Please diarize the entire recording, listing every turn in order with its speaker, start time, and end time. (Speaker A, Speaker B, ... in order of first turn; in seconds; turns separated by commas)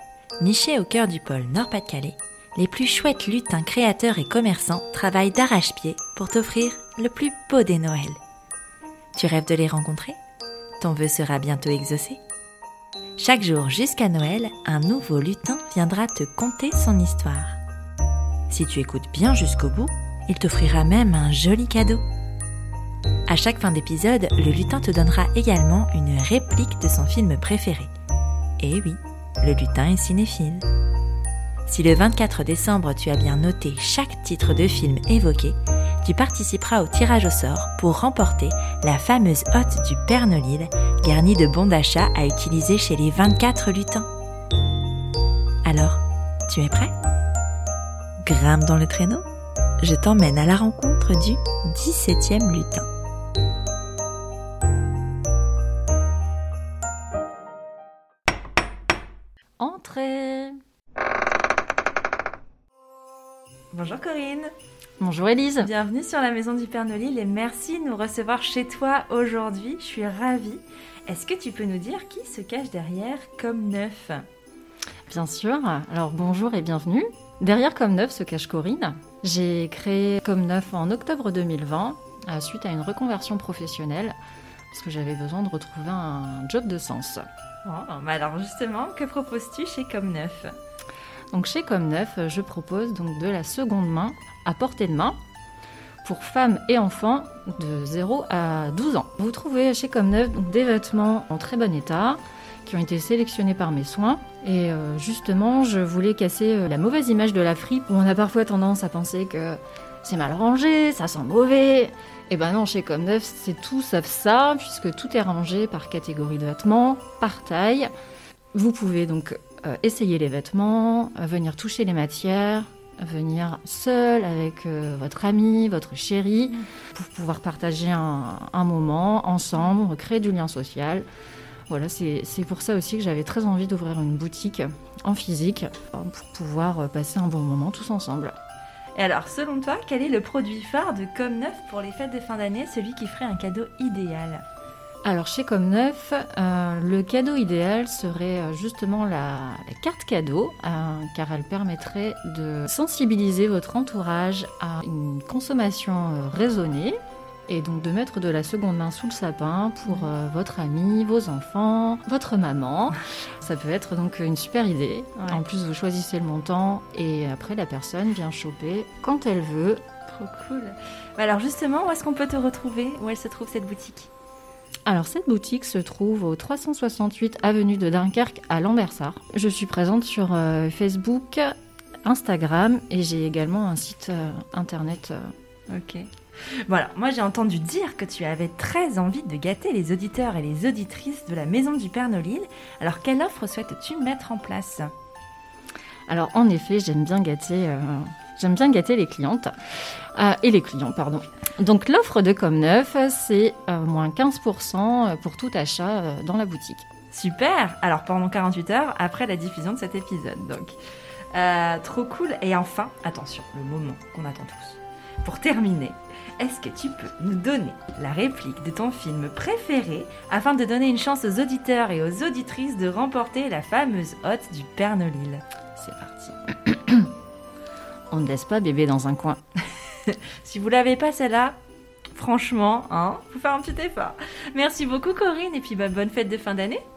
Speaker A: 0.4-8.2, Speaker A: 9.2-10.2, Speaker A: 10.8-12.2, Speaker A: 13.2-17.6, Speaker A: 18.5-22.0, Speaker A: 23.3-27.9, Speaker A: 28.6-30.7, Speaker A: 31.7-44.1, Speaker A: 45.6-46.9, Speaker A: 48.2-49.3, Speaker A: 49.8-52.9, Speaker B: 59.6-60.6, Speaker A: 63.7-64.5, Speaker B: 65.0-65.7, Speaker A: 65.6-74.3, Speaker B: 75.1-84.2, Speaker B: 84.7-87.2, Speaker A: 87.6-90.5, Speaker B: 91.3-95.2, Speaker B: 96.0-117.9, Speaker B: 118.5-131.1, Speaker B: 131.7-138.3, Speaker A: 139.0-144.4, Speaker B: 145.1-169.8, Speaker A: 170.1-174.1, Speaker B: 174.9-185.3, Speaker A: 185.7-194.9, Speaker B: 196.1-199.5, Speaker B: 200.2-206.9, Speaker A: 207.1-210.8, Speaker A: 211.3-225.4, Speaker B: 225.8-227.1, Speaker B: 228.1-229.4, Speaker A: 230.1-231.6, Speaker A: 232.1-236.8